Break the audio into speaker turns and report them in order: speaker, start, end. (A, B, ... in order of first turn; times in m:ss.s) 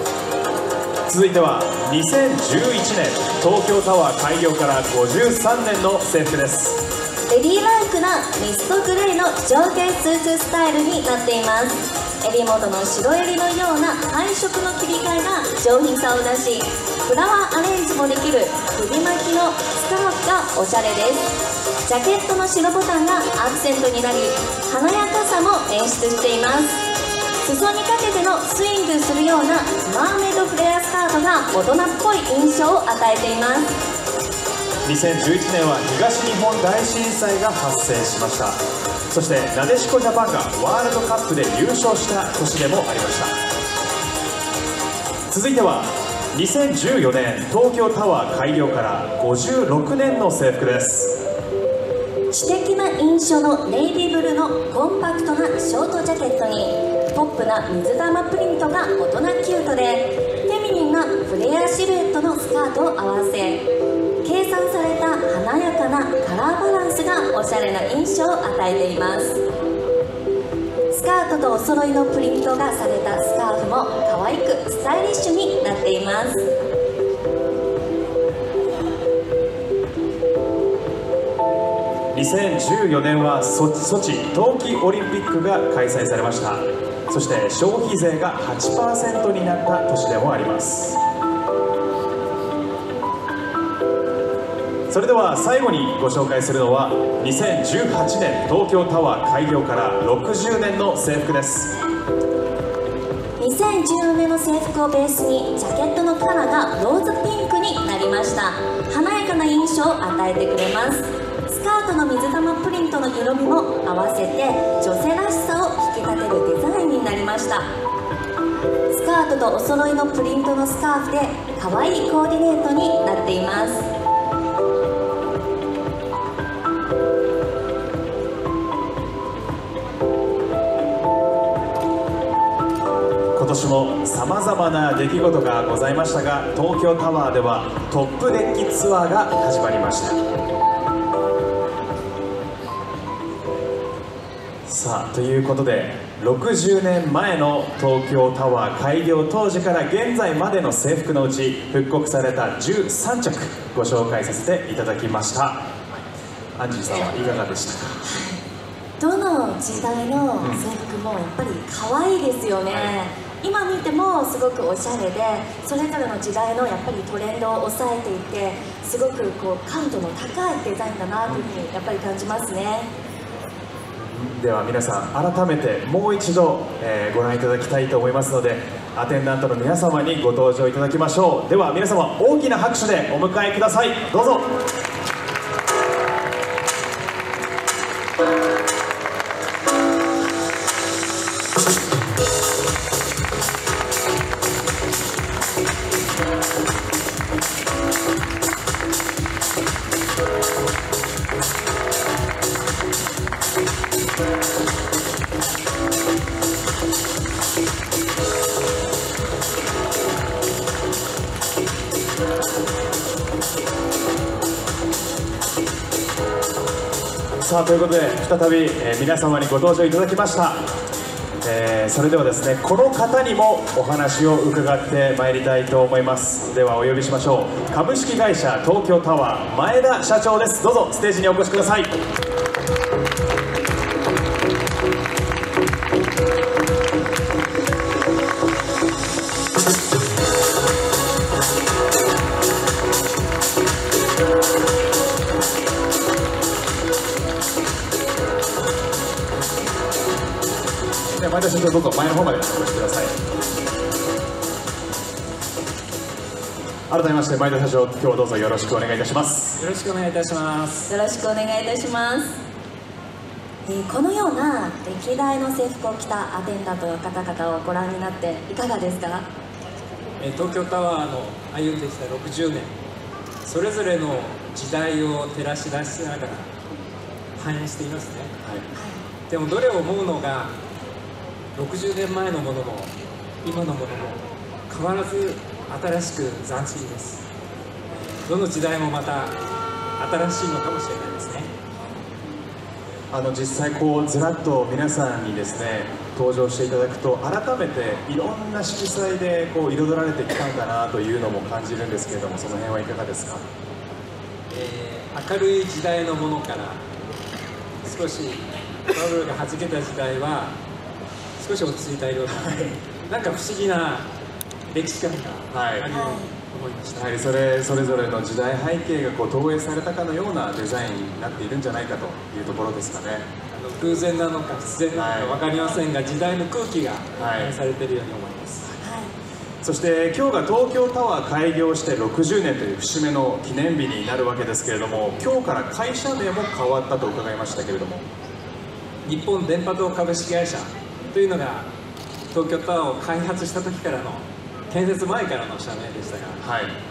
0:01.1-0:06.8 A
0:07.3-0:21.3 B
0:21.8-0:26.8 B
0:27.4-0:33.8 B
0:34.8-0:38.6 A
0:39.1-0:43.3 A
0:45.3-0:51.2 A
0:52.3-1:03.6 B
1:04.2-1:09.4 B
1:10.9-1:16.4 B
1:22.1-1:31.0 A
1:34.9-1:41.7 A
1:43.4-1:57.7 B
1:58.9-2:03.9 B
2:13.3-2:20.2 A
2:24.6-2:35.6 A
2:36.6-2:38.0 A
2:38.0-2:38.4 B
2:39.0-2:52.9 B
2:40.4-2:40.6 A
2:54.0-3:04.5 A
3:37.4-3:40.6 A
3:41.4-3:51.9 A
4:11.1-4:13.1 A
4:16.9-4:19.6 A
4:19.6-4:20.9 C
4:20.9-4:22.3 B
4:23.6-4:29.2 B
4:30.2-4:32.7 C
4:33.4-4:36.5 C
4:37.4-4:38.3 C
4:38.7-4:39.0 B
4:39.3-4:40.5 C
4:41.6-4:42.9 C
4:43.4-4:47.2 C
4:47.9-4:49.3 C
4:50.0-4:51.5 C
4:53.1-5:03.4 A
5:04.5-5:06.8 C
5:07.8-5:10.5 C
5:11.4-5:14.0 C
5:12.3-5:12.7 A
5:14.7-5:17.2 C
5:15.5-5:15.9 A
5:15.9-5:16.3 B
5:17.0-5:23.3 A
5:23.5-5:28.8 C
5:24.9-5:25.4 A
5:27.2-5:27.5 A
5:28.8-5:29.1 B
5:29.6-5:38.0 A
5:39.0-5:41.7 C
5:42.3-5:46.4 C
5:46.4-5:46.7 A